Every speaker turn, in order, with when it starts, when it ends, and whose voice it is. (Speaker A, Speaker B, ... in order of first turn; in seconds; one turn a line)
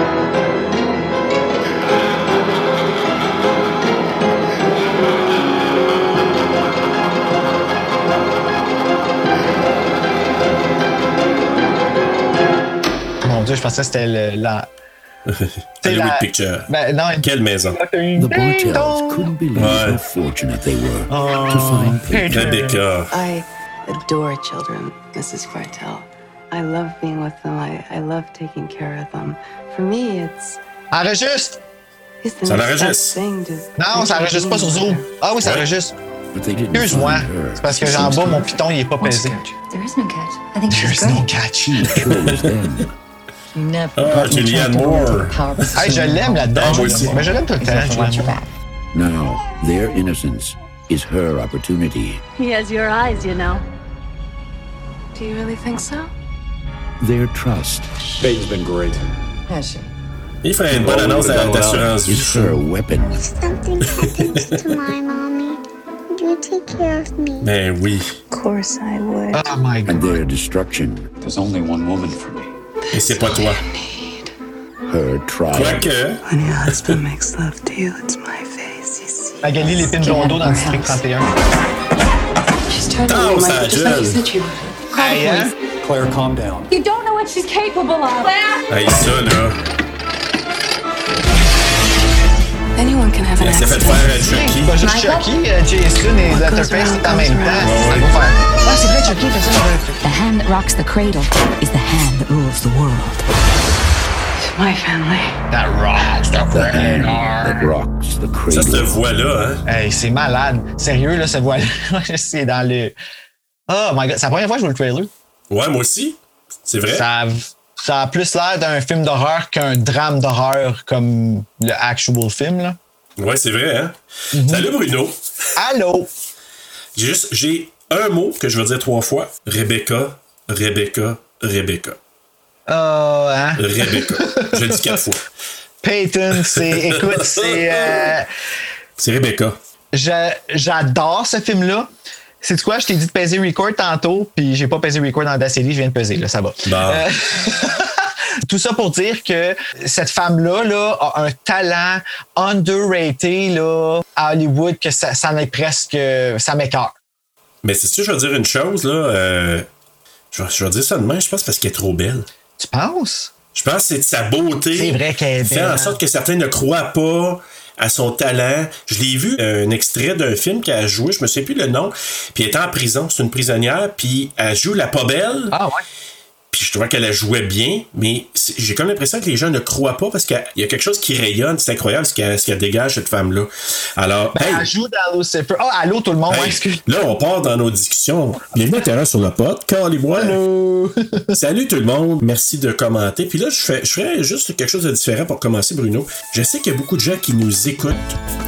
Speaker A: 13.2-14.7
Speaker B: 15.3-17.8
Speaker A: 15.8-19.3
Speaker C: 18.2-22.5
Speaker B: 19.5-20.0
Speaker A: 21.1-22.8
Speaker B: 22.3-23.1
Speaker D: 23.1-30.6
Speaker A: 30.9-31.6
Speaker D: 32.2-35.1
Speaker B: 32.5-33.2
Speaker A: 33.8-35.9
Speaker B: 35.4-35.7
Speaker C: 36.3-38.6
Speaker A: 36.7-39.4
Speaker E: 39.0-41.3
Speaker A: 40.7-42.1
Speaker C: 41.6-42.9
Speaker E: 43.5-48.5
Speaker B: 43.9-45.4
Speaker A: 44.2-44.9
Speaker A: 45.7-48.4
Speaker B: 46.5-47.3
Speaker C: 48.9-52.2
Speaker F: 52.4-53.6
Speaker D: 55.1-56.1
Speaker C: 57.0-57.9
Speaker G: 58.2-59.1
Speaker E: 59.5-59.9
Speaker B: 60.4-62.6
Speaker G: 60.9-61.8
Speaker C: 62.0-63.2
Speaker H: 63.2-65.6
Speaker H: 66.1-67.5
Speaker B: 67.4-68.2
Speaker D: 68.3-69.4
Speaker A: 69.3-70.0
Speaker C: 69.9-72.5
Speaker B: 72.9-73.6
Speaker D: 72.9-74.3
Speaker C: 74.9-75.9
Speaker B: 75.5-77.0
Speaker D: 76.2-80.0
Speaker A: 79.4-81.3
Speaker E: 80.0-81.0
Speaker D: 82.7-85.5
Speaker B: 83.0-84.2
Speaker A: 84.9-85.5
Speaker G: 85.8-86.7
Speaker F: 86.7-88.6
Speaker B: 88.7-89.6
Speaker D: 92.8-94.4
Speaker B: 93.4-94.8
Speaker A: 94.3-100.0
Speaker D: 96.3-98.0
Speaker B: 97.6-98.1
Speaker E: 100.0-103.2
Speaker D: 104.4-105.4
Speaker A: 105.5-107.7
Speaker C: 106.3-109.0
Speaker B: 108.5-109.6
Speaker A: 109.7-112.9
Speaker A: 113.7-115.1
Speaker B: 115.5-117.1
Speaker A: 116.9-122.8
Speaker B: 123.2-125.2
Speaker A: 124.3-124.7
Speaker A: 125.6-126.1
Speaker B: 126.9-132.0
Speaker A: 132.7-135.0
Speaker B: 133.6-135.2
Speaker A: 135.8-138.3
Speaker B: 136.4-138.1
Speaker B: 139.0-139.6
Speaker A: 139.9-141.9
Speaker A: 142.4-156.9
Speaker B: 146.7-147.1
Speaker B: 157.6-159.7
Speaker B: 160.3-162.3
Speaker A: 162.6-163.3
Speaker B: 163.5-175.5
Speaker A: 164.8-166.0
Speaker A: 175.5-175.8
Speaker B: 176.5-184.7
Speaker A: 184.3-186.8
Speaker B: 186.3-190.4
Speaker A: 190.2-191.4
Speaker B: 191.3-198.2